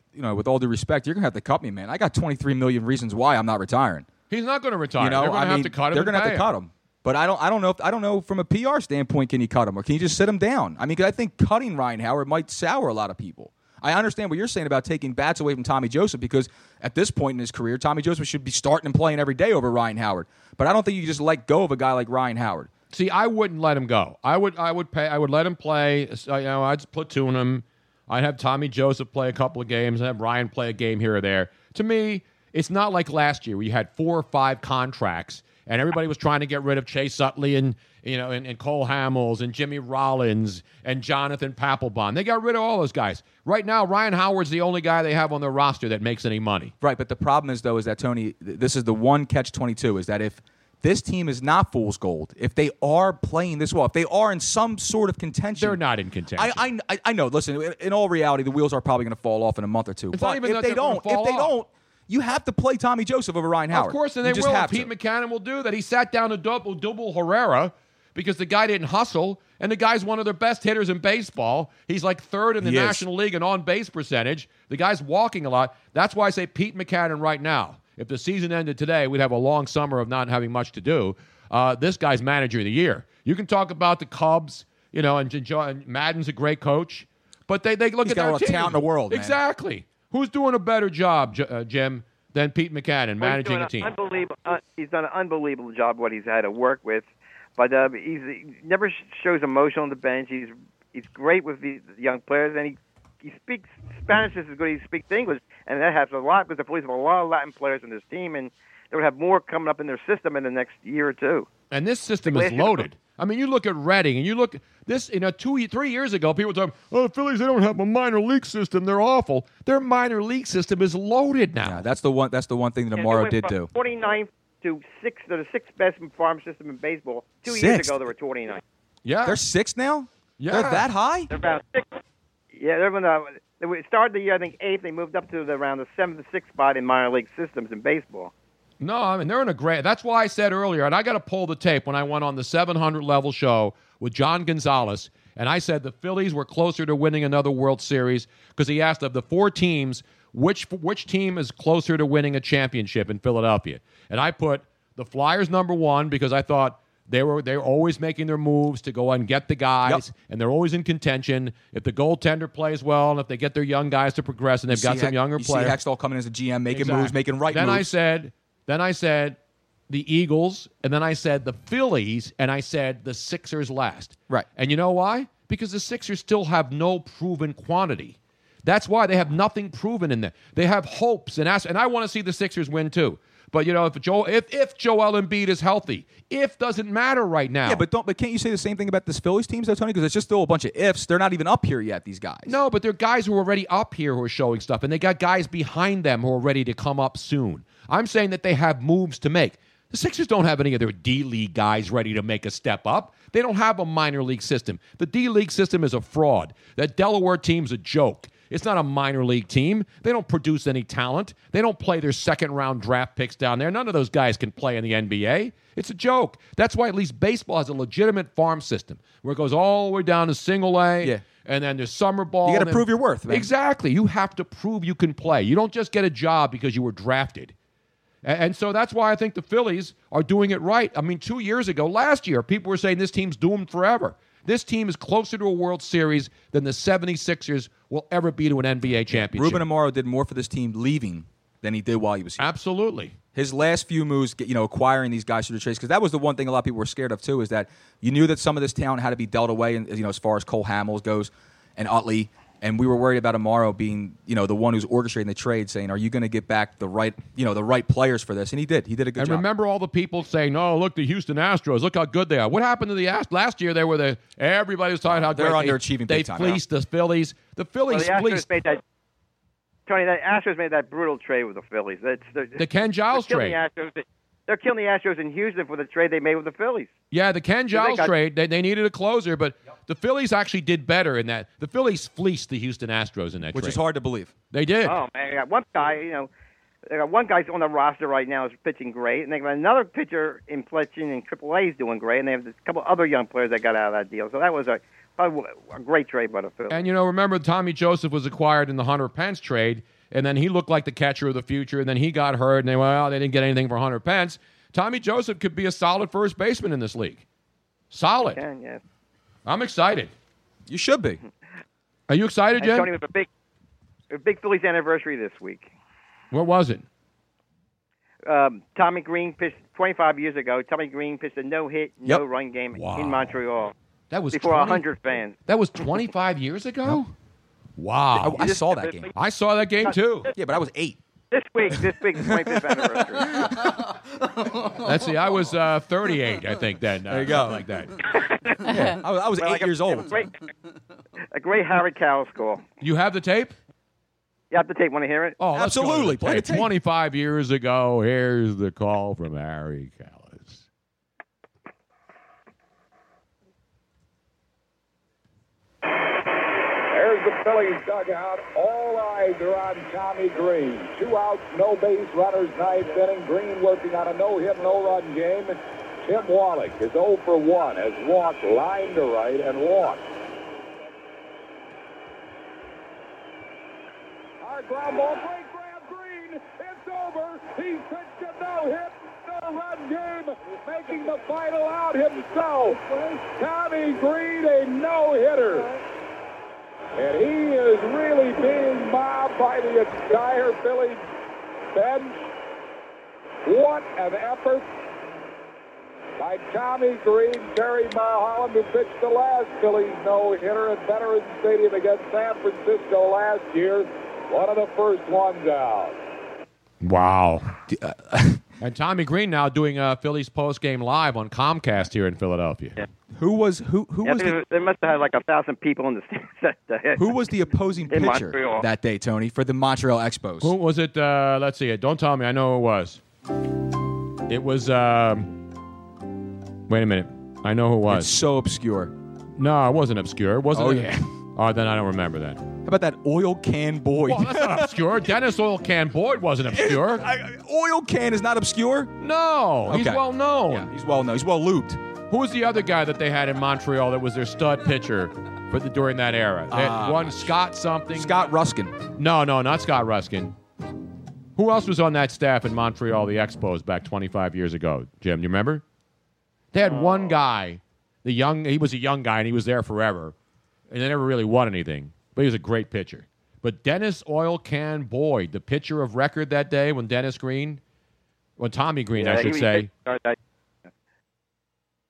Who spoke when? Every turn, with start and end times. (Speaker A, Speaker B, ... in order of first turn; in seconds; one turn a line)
Speaker A: 0.1-4.1
Speaker B: 4.3-6.5
Speaker A: 5.0-22.7
Speaker B: 22.9-46.7
Speaker A: 46.8-55.8
Speaker B: 55.6-56.6
Speaker A: 56.4-64.9
Speaker B: 60.1-61.5
Speaker B: 63.7-93.9
Speaker A: 72.6-73.0
Speaker A: 88.0-89.4
Speaker C: 93.2-97.1
Speaker C: 97.6-111.5
Speaker B: 111.7-121.8
Speaker C: 112.3-112.8
Speaker A: 121.6-123.7
Speaker C: 123.0-128.6
Speaker A: 127.5-128.0
Speaker B: 129.1-129.4
Speaker A: 129.2-131.3
Speaker B: 130.4-130.9
Speaker C: 131.3-132.0
Speaker C: 132.5-138.3
Speaker B: 138.8-165.8
Speaker A: 164.7-167.9
Speaker B: 166.7-169.4
Speaker B: 169.9-187.8
Speaker A: 187.7-192.6
Speaker B: 192.5-227.5
Speaker A: 222.4-223.5
Speaker B: 228.2-239.6
Speaker A: 239.1-242.5
Speaker B: 242.4-243.2
Speaker A: 243.3-259.4
Speaker B: 259.2-268.5
Speaker A: 265.1-266.6
Speaker C: 267.9-268.8
Speaker C: 269.9-276.9
Speaker B: 272.6-273.6
Speaker B: 277.1-283.8
Speaker C: 277.7-278.1
Speaker A: 283.5-284.3
Speaker B: 284.5-285.0
Speaker C: 284.9-286.3
Speaker C: 286.9-296.9
Speaker B: 296.7-307.2
Speaker B: 307.9-308.4
Speaker C: 308.2-308.8
Speaker B: 309.5-310.1
Speaker A: 310.7-311.2
Speaker B: 312.1-312.9
Speaker C: 312.6-313.3
Speaker C: 314.1-315.7
Speaker B: 316.3-316.9
Speaker C: 318.3-323.7
Speaker B: 322.7-323.3
Speaker B: 324.1-324.9
Speaker C: 324.3-325.4
Speaker B: 325.5-327.1
Speaker B: 327.8-328.6
Speaker A: 328.2-329.1
Speaker C: 328.8-329.1
Speaker B: 329.1-330.3
Speaker A: 330.4-331.0
Speaker C: 331.3-333.4
Speaker B: 334.8-337.9
Speaker A: 337.1-337.7
Speaker C: 338.1-338.7
Speaker A: 338.6-340.3
Speaker C: 339.4-340.3
Speaker C: 341.3-342.6
Speaker B: 342.8-343.6
Speaker C: 344.5-345.4
Speaker B: 345.4-350.6
Speaker A: 345.5-346.7
Speaker D: 356.9-370.0
Speaker D: 374.4-385.7
Speaker D: 387.0-391.0
Speaker D: 391.7-392.2
Speaker D: 393.4-394.6
Speaker D: 396.2-406.0
Speaker B: 406.8-407.6
Speaker A: 407.7-408.4
Speaker B: 408.6-412.8
Speaker A: 413.1-414.4
Speaker C: 414.0-417.2
Speaker A: 417.0-420.5
Speaker C: 417.9-418.7
Speaker B: 420.4-423.0
Speaker B: 424.3-425.3
Speaker B: 426.7-428.1
Speaker A: 427.9-428.9
Speaker B: 429.4-432.4
Speaker A: 430.5-431.0
Speaker A: 432.6-434.8
Speaker B: 434.1-437.1
Speaker A: 436.5-438.9
Speaker B: 439.0-440.7
Speaker A: 439.7-441.8
Speaker B: 442.1-448.3
Speaker A: 446.5-447.4
Speaker A: 447.9-448.8
Speaker B: 449.0-450.3
Speaker B: 451.4-455.6
Speaker B: 456.5-460.1
Speaker B: 460.7-467.6
Speaker B: 468.4-469.7
Speaker C: 469.0-470.2